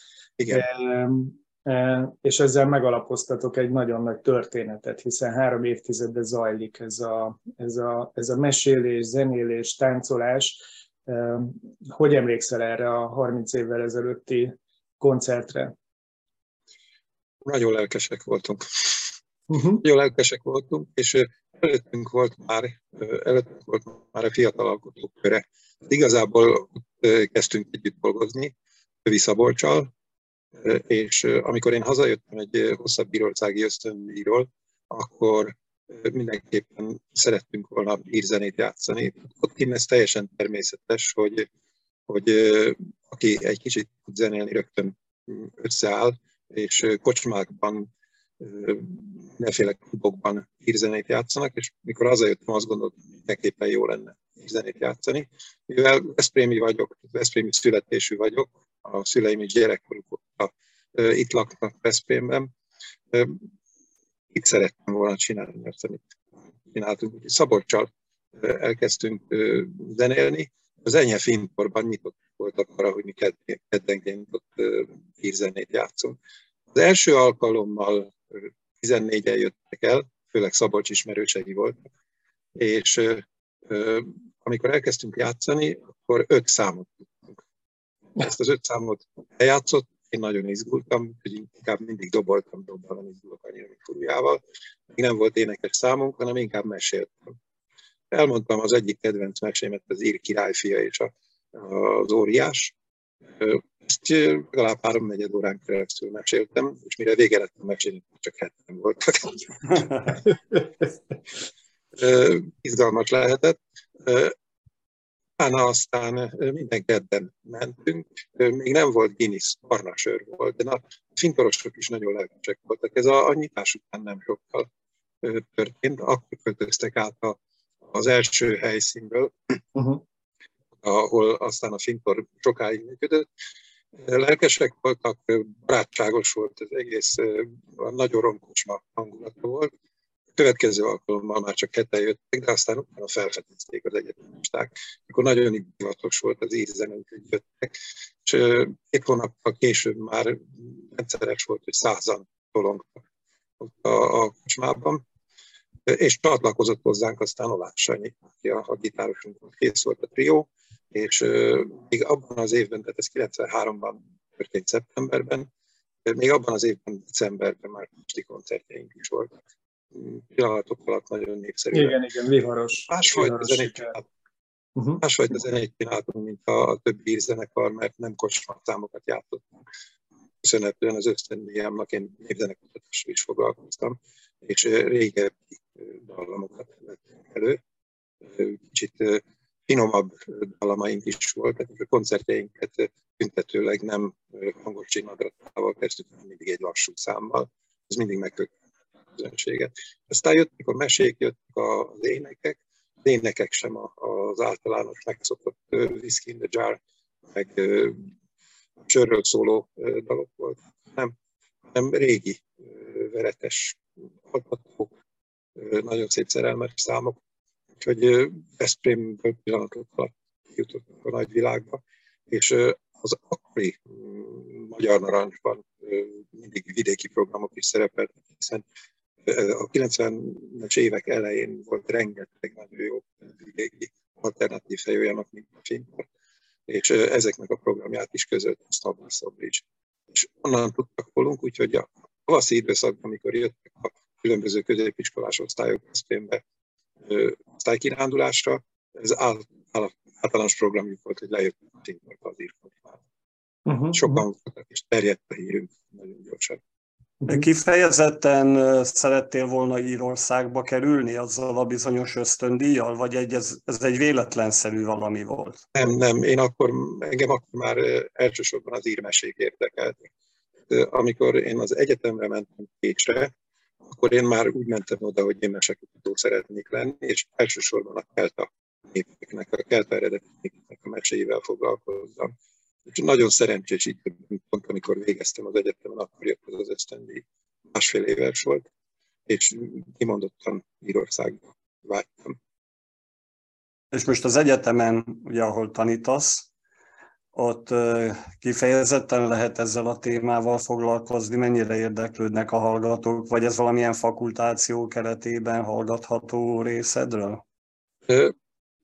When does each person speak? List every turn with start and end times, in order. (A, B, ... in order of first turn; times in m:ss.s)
0:00.4-0:00.6 A
0:00.5-0:15.8 B
0:17.4-0:19.0 A
0:19.5-0:19.8 B
0:19.7-0:28.5 A
0:29.0-0:29.9 A
0:30.6-0:41.5 A
0:42.1-0:47.9 A
0:48.4-1:02.5 A
1:03.1-1:03.4 A
1:04.3-1:06.2 A
1:06.7-1:16.2 A
1:16.7-1:21.9 A
1:22.6-1:27.4 A
1:28.2-1:34.4 A
1:34.9-1:37.4 A
1:38.1-1:42.8 A
1:43.4-1:50.3 A
1:52.0-1:54.4 A
1:55.4-2:04.7 A
2:05.2-2:09.6 A
2:09.8-2:10.0 B
2:10.8-2:13.3 A
2:14.0-2:19.7 A
2:20.4-2:33.0 A
2:33.6-2:35.0 A
2:35.9-2:45.5 A
2:46.0-2:49.4 A
2:49.9-2:52.0 A
2:51.7-2:54.0 B
2:52.9-2:54.0 A
2:54.8-2:55.0 B
2:55.0-2:59.5 A
3:00.4-3:07.6 A
3:08.2-3:18.5 A
3:19.1-3:28.0 A
3:28.9-3:31.1 A
3:31.7-3:34.9 A
3:35.6-3:37.2 A
3:37.8-3:48.6 A
3:49.2-3:56.1 A
3:56.7-4:06.4 A
4:07.0-4:13.0 A
4:13.7-4:14.0 B
4:13.9-4:16.6 A
4:17.3-4:25.6 C
4:25.7-4:30.1 A
4:30.7-4:33.3 A
4:33.8-4:42.3 A
4:42.9-4:48.7 A
4:49.3-4:52.4 A
4:53.9-4:56.5 C
4:57.3-5:07.4 C
5:08.1-5:08.3 A